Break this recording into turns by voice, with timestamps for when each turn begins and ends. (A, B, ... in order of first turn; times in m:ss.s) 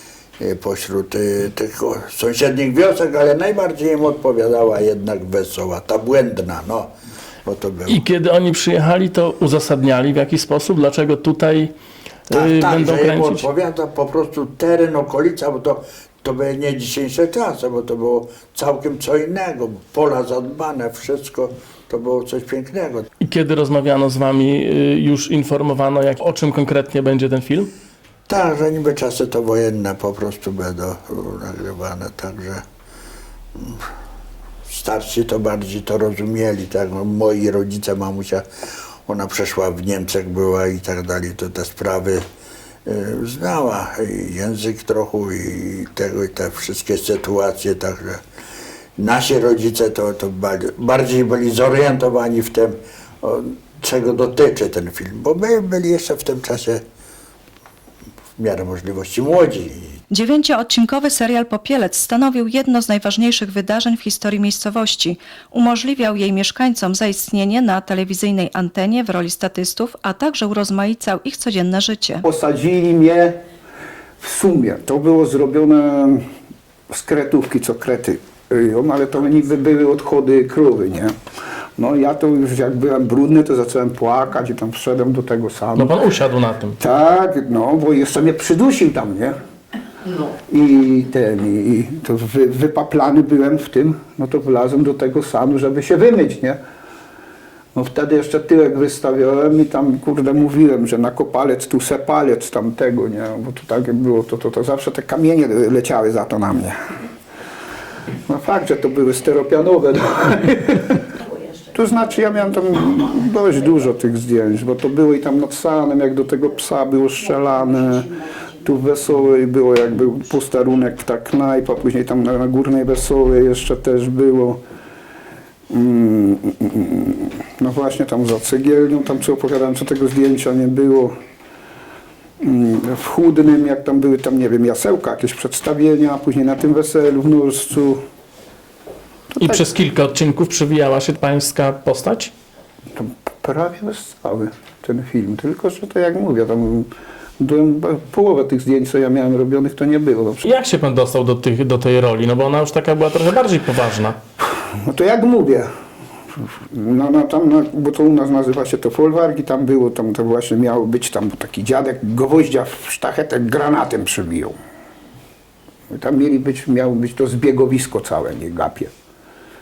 0:00.4-0:06.9 A
0:07.4-0:08.0 A
0:07.9-0:11.7 B
0:12.3-0:13.5 B
0:12.3-0:23.0 A
0:23.2-0:27.7 B
0:28.3-0:32.6 A
0:33.6-0:33.8 A
0:34.7-0:38.4 A
0:39.0-0:42.2 A
0:42.8-0:48.2 A
0:49.0-0:56.8 A
0:58.4-0:59.9 A
1:00.1-1:12.2 C
1:12.2-1:13.4 D
1:14.2-1:16.2 D
1:16.9-1:21.1 D
1:21.8-1:26.0 D
1:25.7-1:26.8 B
1:26.8-1:29.4 D
1:30.4-1:36.6 D
1:37.7-1:46.8 D
1:48.3-1:51.1 D
1:51.7-2:04.6 D
2:05.7-2:11.2 D
2:12.4-2:18.0 D
2:19.4-2:19.6 D
2:19.4-2:22.3 B
2:23.0-2:30.4 D
2:30.4-2:34.2 B
2:34.5-2:35.7 D
2:36.4-2:44.6 D
2:45.9-2:48.9 D